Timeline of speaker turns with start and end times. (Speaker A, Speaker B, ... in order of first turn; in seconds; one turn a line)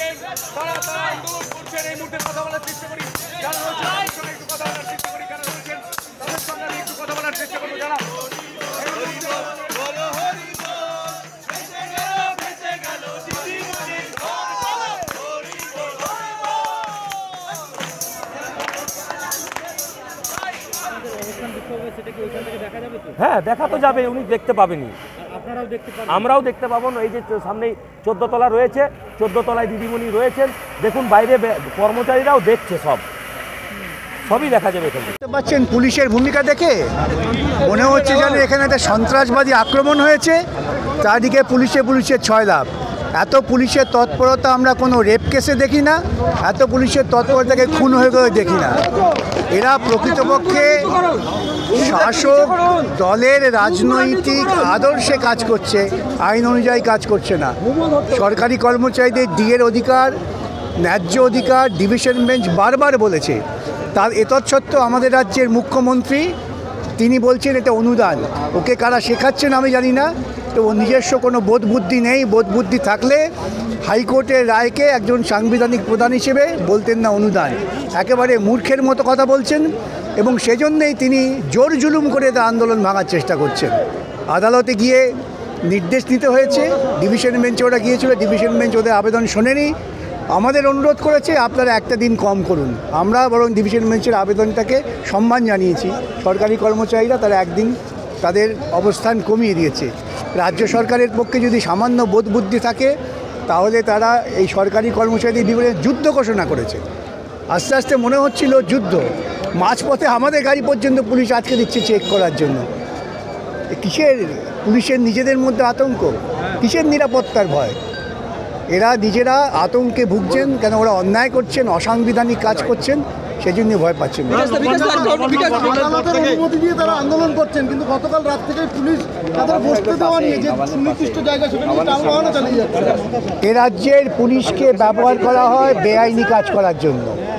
Speaker A: 0.6-2.8
Speaker A: 6.9-7.8
Speaker A: 21.2-23.0
Speaker B: 23.1-25.0
Speaker B: 25.7-33.0
Speaker B: 34.2-35.2
Speaker C: 35.2-36.9
Speaker C: 37.5-40.4
Speaker C: 41.0-48.9
Speaker C: 49.5-51.0
Speaker C: 51.7-60.2
Speaker C: 60.8-63.4
Speaker C: 63.9-66.3
Speaker C: 67.0-73.3
Speaker C: 73.8-83.8
Speaker C: 84.3-85.1
Speaker C: 85.6-89.8
Speaker C: 90.3-103.0
Speaker C: 103.5-106.8
Speaker C: 107.5-112.7
Speaker C: 113.7-117.8
Speaker C: 118.7-124.6
Speaker B: 124.5-126.2
Speaker A: 124.5-133.0
Speaker C: 133.4-137.2